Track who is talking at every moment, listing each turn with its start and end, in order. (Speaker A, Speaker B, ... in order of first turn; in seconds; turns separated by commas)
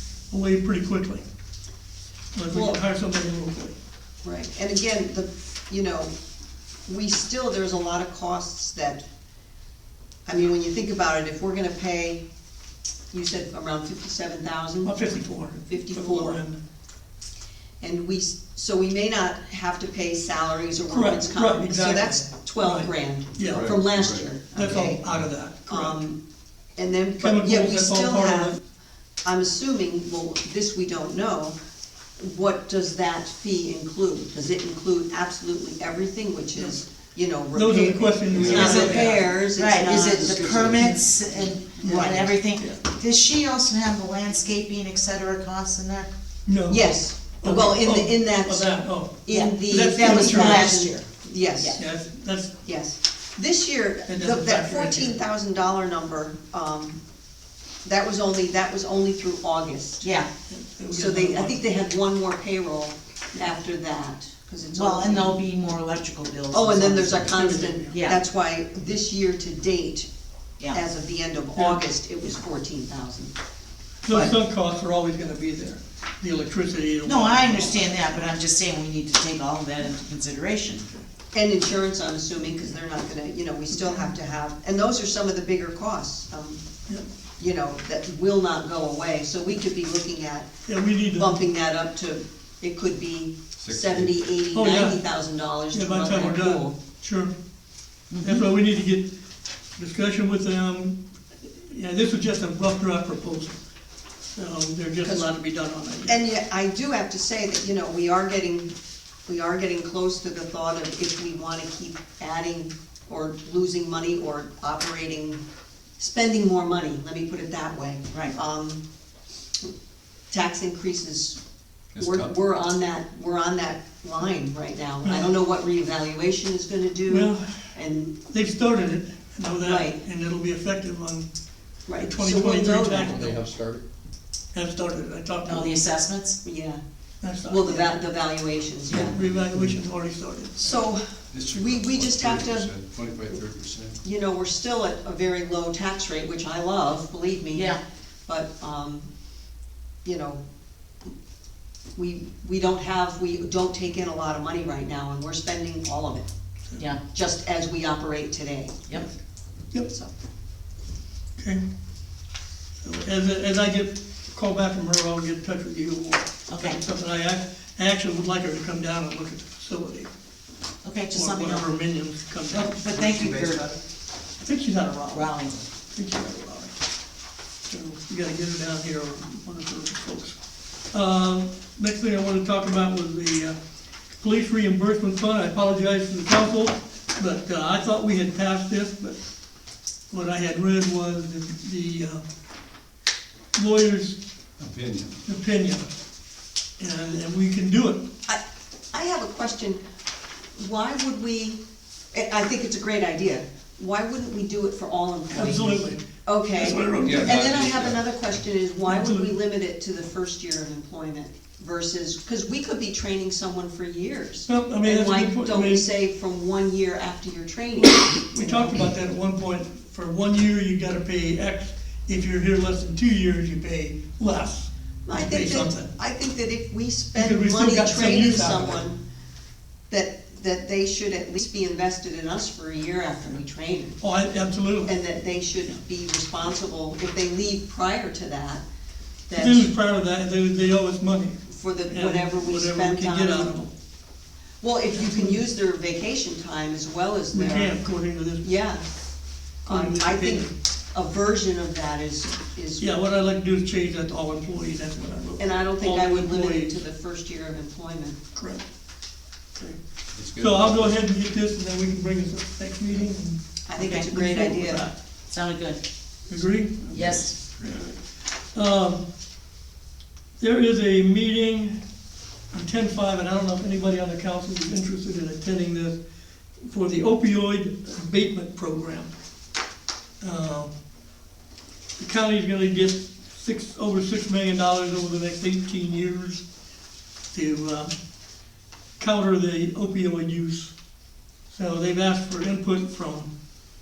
Speaker A: 0.3-1.2, Speaker A: 2.3-3.7, Speaker B: 2.5-2.8, Speaker B: 4.2-6.1, Speaker B: 6.9-9.0, Speaker B: 10.2-12.2, Speaker B: 13.1-14.9, Speaker A: 14.8-16.6, Speaker B: 15.7-16.4, Speaker B: 17.8-24.7, Speaker A: 20.9-23.8, Speaker C: 23.4-24.2, Speaker D: 24.5-25.0, Speaker A: 24.5-26.0, Speaker B: 25.7-26.2, Speaker B: 26.8-28.6, Speaker A: 27.2-28.6, Speaker B: 29.2-31.6, Speaker B: 32.2-41.1, Speaker A: 37.5-39.3, Speaker C: 38.3-38.8, Speaker D: 38.4-46.1, Speaker A: 41.8-42.8, Speaker A: 46.5-50.8, Speaker B: 46.7-51.8, Speaker D: 49.3-51.0, Speaker D: 51.6-51.8, Speaker A: 51.8-52.5, Speaker B: 52.6-57.0, Speaker A: 54.1-55.1, Speaker B: 57.8-60.1, Speaker D: 60.0-60.3, Speaker A: 60.5-61.6, Speaker B: 60.9-65.4, Speaker D: 64.7-67.4, Speaker B: 66.5-70.1, Speaker A: 67.2-68.0, Speaker D: 67.9-68.2, Speaker B: 70.7-73.3, Speaker A: 74.0-77.9, Speaker B: 74.1-74.3, Speaker D: 77.0-80.9, Speaker B: 81.3-86.6, Speaker A: 83.7-84.1, Speaker B: 87.4-90.5, Speaker A: 90.7-91.3, Speaker B: 91.1-96.7, Speaker C: 93.5-94.3, Speaker A: 94.5-95.0, Speaker A: 95.7-97.3, Speaker D: 98.1-98.5, Speaker A: 98.2-99.1, Speaker A: 99.8-103.6, Speaker A: 104.3-106.2, Speaker B: 105.0-105.3, Speaker B: 106.0-108.7, Speaker B: 109.2-115.4, Speaker B: 116.0-118.8, Speaker B: 120.3-121.4, Speaker C: 121.9-122.3, Speaker B: 122.0-128.1, Speaker A: 127.1-127.7, Speaker A: 128.3-131.3, Speaker B: 129.6-130.0, Speaker B: 131.9-133.3, Speaker A: 132.0-133.5, Speaker C: 133.1-133.8, Speaker A: 134.5-135.8, Speaker D: 135.4-136.4, Speaker B: 136.4-136.8, Speaker A: 137.2-137.9, Speaker B: 137.5-139.2, Speaker A: 138.9-140.8, Speaker B: 140.6-142.7, Speaker C: 141.3-144.0, Speaker B: 144.0-149.1, Speaker D: 147.5-147.8, Speaker B: 150.0-150.4, Speaker B: 151.9-156.3, Speaker B: 157.1-159.0, Speaker B: 159.9-160.1, Speaker A: 162.8-170.1, Speaker D: 166.5-166.8, Speaker D: 170.8-171.7, Speaker A: 171.1-173.8, Speaker D: 172.5-173.7, Speaker A: 174.4-176.7, Speaker D: 175.1-175.5, Speaker A: 177.7-180.4, Speaker A: 180.9-183.6, Speaker A: 184.2-189.2, Speaker A: 190.1-192.2, Speaker A: 193.5-194.2, Speaker C: 194.6-195.2, Speaker A: 195.2-195.9, Speaker A: 196.8-198.1, Speaker B: 198.3-199.8, Speaker B: 200.6-201.6, Speaker B: 202.1-218.8, Speaker A: 205.3-206.0, Speaker A: 206.5-207.7, Speaker C: 207.0-208.1, Speaker A: 208.8-209.3, Speaker A: 214.5-215.8, Speaker A: 218.3-225.9, Speaker B: 225.1-229.0, Speaker A: 227.1-228.8, Speaker B: 229.9-234.0, Speaker A: 234.0-234.9, Speaker B: 234.8-238.6, Speaker B: 239.3-239.7, Speaker A: 239.3-241.4, Speaker B: 241.5-243.7, Speaker A: 241.9-243.7, Speaker B: 244.6-247.7, Speaker A: 245.0-245.3, Speaker A: 247.3-248.4, Speaker B: 248.4-248.8, Speaker A: 249.6-250.5, Speaker B: 249.7-252.9, Speaker A: 252.8-256.8, Speaker B: 255.4-258.2, Speaker A: 258.3-258.6, Speaker C: 260.1-261.0, Speaker A: 260.3-263.4, Speaker B: 263.7-264.9, Speaker D: 263.8-264.6, Speaker A: 264.1-264.9, Speaker D: 265.3-265.8, Speaker A: 266.3-267.0, Speaker D: 266.9-267.3, Speaker C: 266.9-267.2, Speaker A: 267.6-267.9, Speaker A: 268.5-269.0, Speaker A: 270.4-271.8, Speaker A: 272.5-276.0, Speaker A: 276.6-279.1, Speaker A: 280.2-280.7, Speaker A: 282.0-286.4, Speaker A: 287.3-287.9, Speaker A: 289.0-290.7, Speaker A: 291.5-293.3